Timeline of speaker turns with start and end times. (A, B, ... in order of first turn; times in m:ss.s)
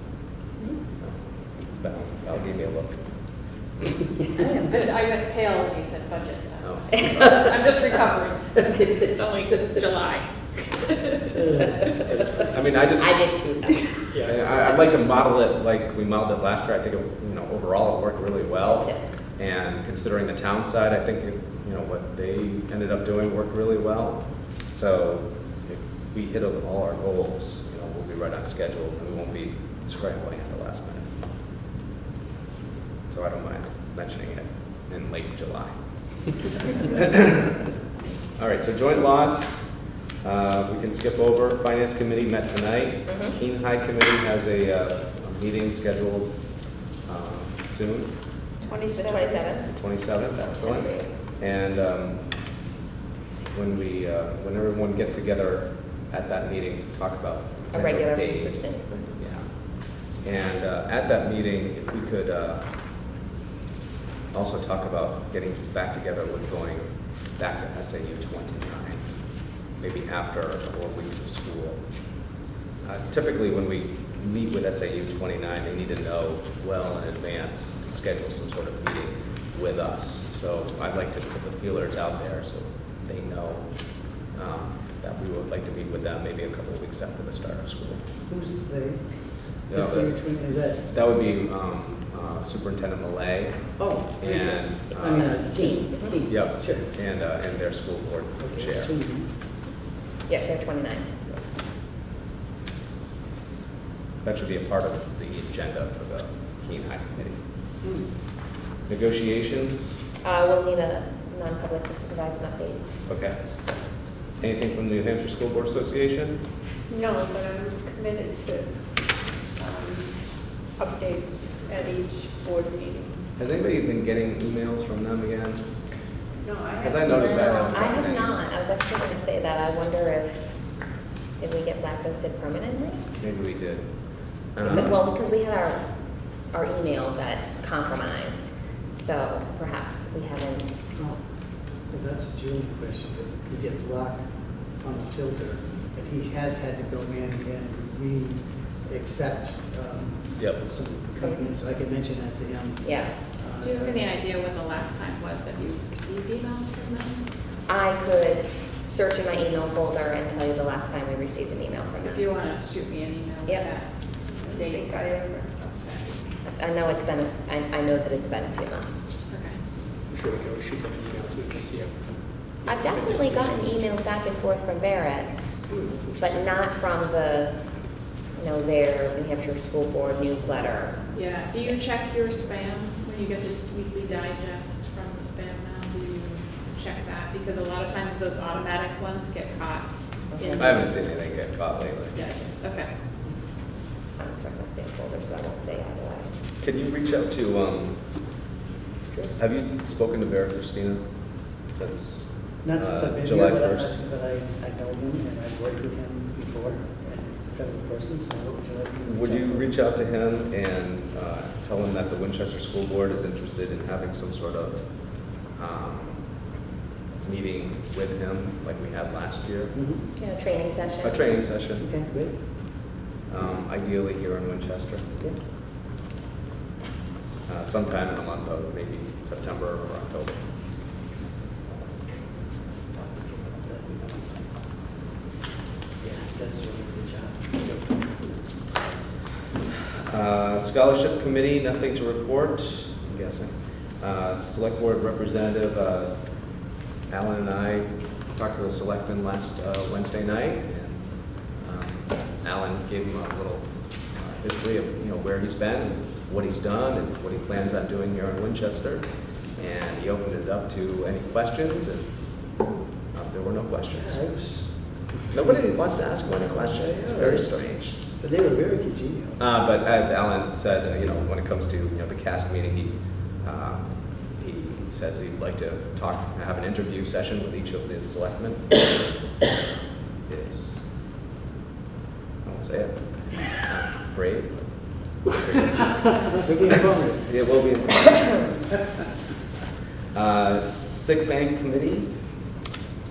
0:01.0-0:03.1 A
0:04.4-0:04.7 B
0:04.6-0:11.4 C
0:06.6-0:07.5 A
0:11.3-0:11.9 D
0:12.0-0:12.4 C
0:12.1-0:13.5 A
0:12.8-0:14.2 B
0:14.1-0:14.4 E
0:14.2-0:31.1 A
0:18.6-0:19.1 B
0:33.1-0:35.7 A
0:36.3-0:37.6 A
0:38.4-0:46.4 A
0:47.0-0:48.1 A
0:48.6-0:49.4 F
0:48.8-0:49.7 B
0:49.7-0:52.3 A
0:50.6-0:51.1 B
0:53.5-1:02.6 A
0:57.7-0:59.2 B
1:04.3-1:09.0 A
1:09.7-1:11.8 A
1:12.8-1:28.0 A
1:28.3-1:30.9 D
1:29.7-1:30.2 A
1:30.9-1:35.4 A
1:33.8-1:36.9 D
1:35.0-1:36.2 B
1:36.3-1:39.0 A
1:38.4-1:39.3 D
1:40.3-1:41.1 B
1:44.2-1:47.4 A
1:47.8-1:48.1 D
1:48.9-1:50.0 A
1:50.2-1:52.8 B
1:53.1-1:53.4 A
1:54.4-1:56.4 A
1:56.9-2:03.2 F
2:03.4-2:05.7 A
2:06.4-2:07.1 F
2:06.8-2:08.4 A
2:07.1-2:10.7 B
2:11.4-2:13.0 B
2:13.2-2:15.0 A
2:14.6-2:20.8 B
2:20.9-2:34.1 D
2:30.4-2:30.6 A
2:31.1-2:31.4 B
2:32.8-2:33.2 B
2:33.6-2:37.2 C
2:37.7-2:42.3 B
2:42.0-2:45.0 C
2:43.4-2:43.7 B
2:44.4-2:46.1 F
2:46.4-2:49.2 B
2:49.3-2:49.6 C
2:50.1-2:54.0 E
2:52.6-2:55.6 B
2:55.7-2:56.6 E
2:56.1-2:57.6 B
2:58.3-3:01.8 B
3:01.1-3:10.9 C
3:10.3-3:10.8 B
3:10.6-3:12.2 A
3:12.1-3:12.9 C
3:14.2-3:16.3 B
3:16.6-3:18.0 A
3:19.0-3:19.3 B
3:19.4-3:24.0 A
3:22.6-3:29.7 D
3:29.0-3:36.3 A
3:37.2-3:39.8 A
3:39.7-3:40.0 D
3:40.2-3:41.2 B
3:41.0-3:41.9 A
3:41.8-3:42.9 D
3:43.3-3:45.1 A
3:47.4-3:50.4 A
3:52.9-3:54.4 D
3:56.0-3:58.1 D
4:00.0-4:22.2 A
4:23.1-4:24.2 A
4:23.9-4:25.6 D
4:25.3-4:28.0 A
4:26.6-4:29.4 D
4:29.4-4:39.1 A
4:40.3-4:40.9 A
4:42.4-4:46.4 A
4:46.4-4:47.3 D
4:47.1-4:49.0 A
4:50.1-4:52.1 A